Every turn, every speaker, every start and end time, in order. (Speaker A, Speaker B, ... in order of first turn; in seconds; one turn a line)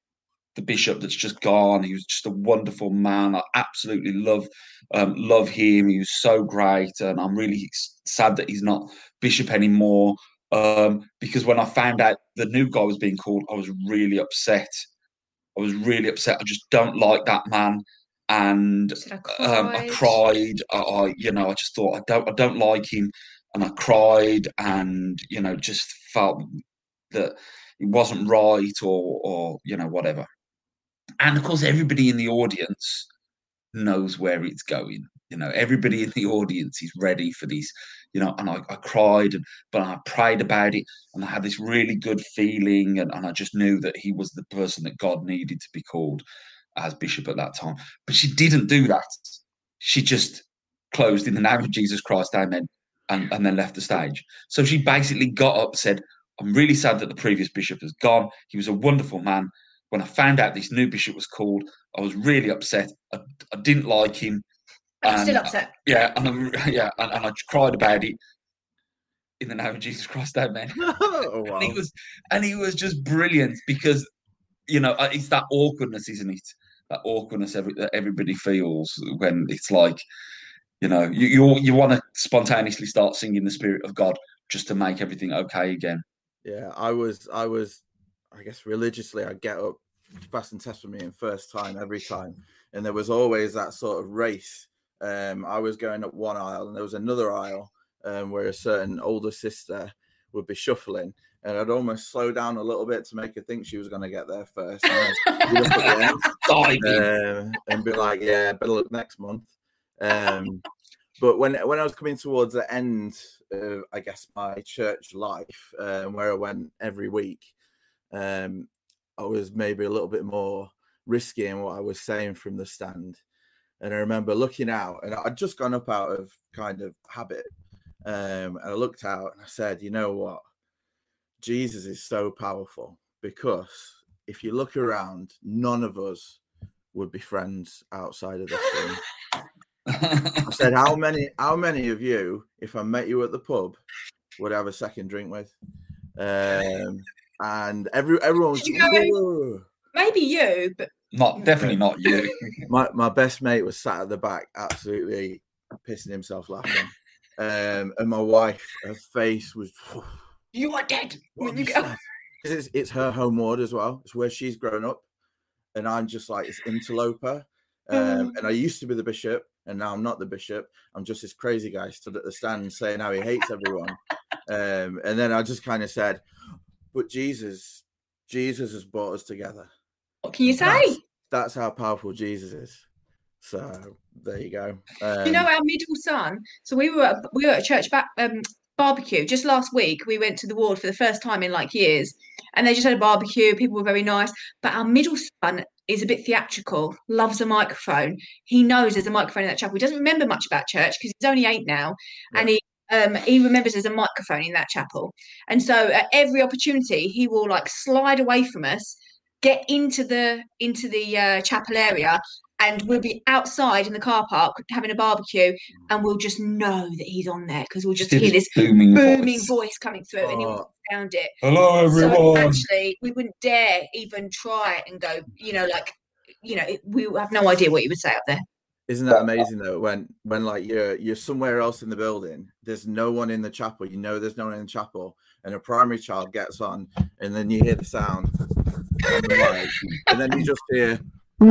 Speaker A: 0.5-14.8
Speaker A: 15.6-26.6
Speaker B: 19.0-20.2
Speaker A: 27.1-30.3
Speaker A: 31.2-33.1
Speaker A: 33.7-46.2
Speaker A: 46.8-64.4
Speaker B: 65.0-65.7
Speaker A: 65.0-68.2
Speaker A: 69.4-74.0
Speaker C: 70.8-71.8
Speaker A: 74.7-80.0
Speaker A: 80.8-86.0
Speaker C: 86.4-110.6
Speaker B: 104.9-105.5
Speaker A: 105.7-107.1
Speaker C: 111.2-117.5
Speaker C: 118.1-123.2
Speaker C: 123.8-127.5
Speaker C: 128.0-130.4
Speaker C: 131.4-136.4
Speaker C: 136.9-139.0
Speaker A: 139.9-140.4
Speaker C: 140.4-143.8
Speaker C: 144.4-145.5
Speaker C: 146.2-149.7
Speaker B: 148.6-149.1
Speaker B: 149.9-151.5
Speaker A: 151.1-152.4
Speaker C: 152.7-160.2
Speaker B: 160.5-161.9
Speaker C: 161.4-165.1
Speaker C: 165.7-176.2
Speaker B: 167.9-168.3
Speaker C: 176.9-179.7
Speaker B: 180.2-181.0
Speaker C: 180.5-182.8
Speaker C: 183.4-185.5
Speaker B: 185.2-221.3
Speaker A: 218.0-219.5
Speaker C: 220.2-220.7
Speaker A: 221.4-222.6
Speaker B: 221.9-228.4
Speaker C: 228.9-238.3
Speaker C: 239.0-241.0